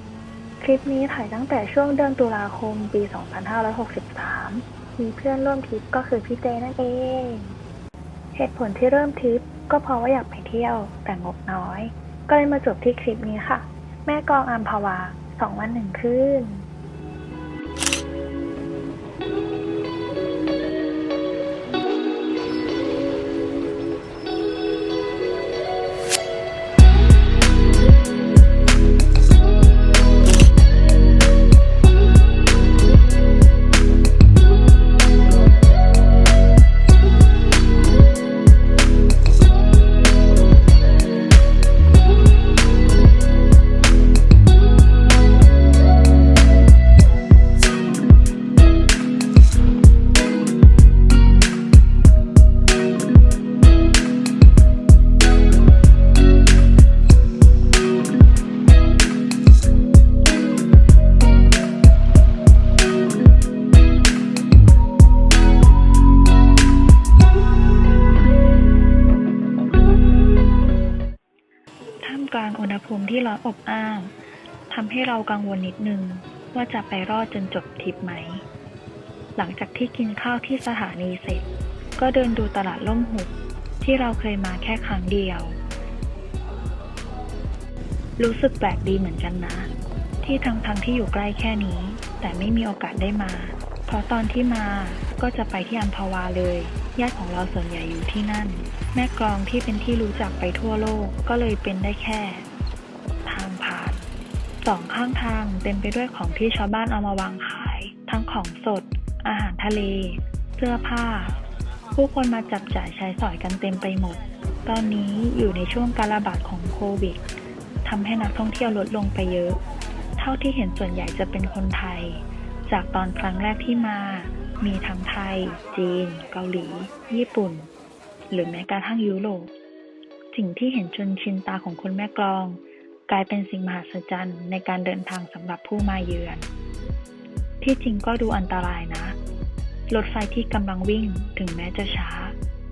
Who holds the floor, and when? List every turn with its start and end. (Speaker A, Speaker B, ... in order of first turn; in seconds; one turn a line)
Speaker A: 0.6-7.5
Speaker A: 8.3-16.7
Speaker A: 72.0-74.1
Speaker A: 74.7-78.4
Speaker A: 79.3-85.6
Speaker A: 88.2-89.7
Speaker A: 90.2-102.4
Speaker A: 103.2-104.0
Speaker A: 104.6-111.3
Speaker A: 111.9-117.2
Speaker A: 117.8-119.6
Speaker A: 120.2-127.7
Speaker A: 128.3-129.5
Speaker A: 130.3-136.5
Speaker A: 137.6-139.2
Speaker A: 139.9-142.3